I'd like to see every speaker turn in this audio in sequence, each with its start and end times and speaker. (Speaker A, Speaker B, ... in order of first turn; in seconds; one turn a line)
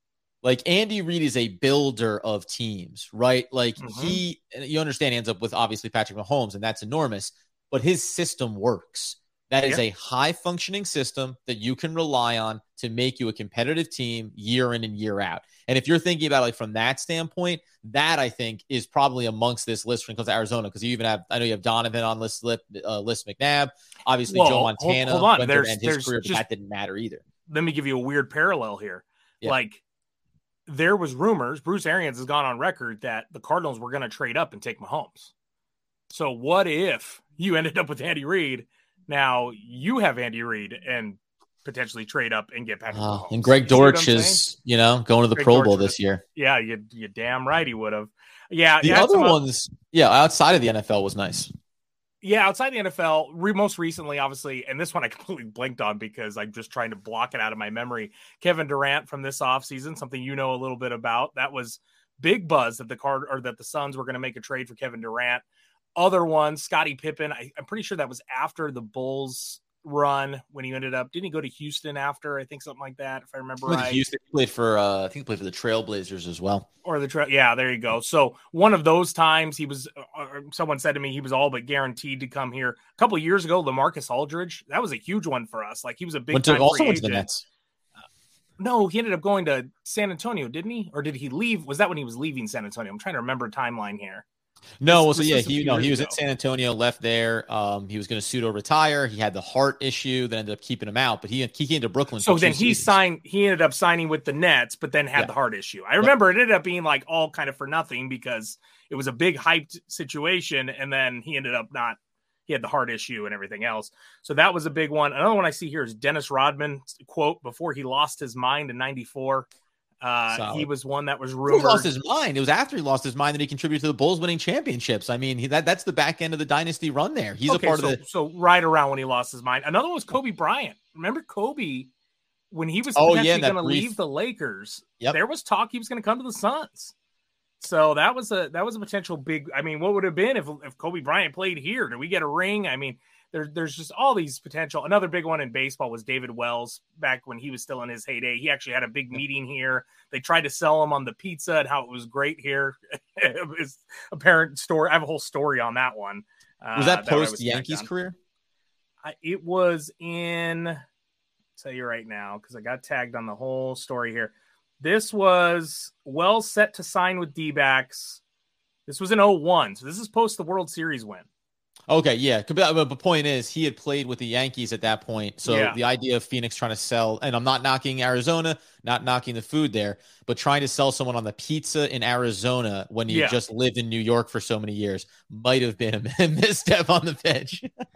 Speaker A: 0.4-27.2
Speaker B: 3.8-4.2
Speaker B: 24.3-26.4
Speaker B: 27.5-29.8
Speaker B: 30.7-35.3
Speaker B: 36.1-44.4
Speaker A: 42.9-46.2
Speaker B: 45.4-49.4
Speaker A: 48.8-51.5
Speaker B: 52.2-65.4
Speaker B: 66.0-74.0
Speaker A: 73.7-76.7
Speaker B: 76.8-87.3
Speaker A: 86.3-87.4
Speaker B: 88.6-94.2
Speaker A: 94.8-103.0
Speaker B: 94.8-96.2
Speaker B: 102.2-119.5
Speaker B: 120.0-121.9
Speaker A: 120.3-120.7
Speaker A: 121.4-128.0
Speaker B: 127.5-131.9
Speaker B: 132.5-136.9
Speaker A: 132.9-134.0
Speaker B: 137.6-157.9
Speaker A: 156.7-158.2
Speaker B: 159.0-160.8
Speaker B: 161.6-168.2
Speaker B: 168.9-171.3
Speaker A: 171.9-187.7
Speaker B: 175.4-175.8
Speaker B: 183.1-183.4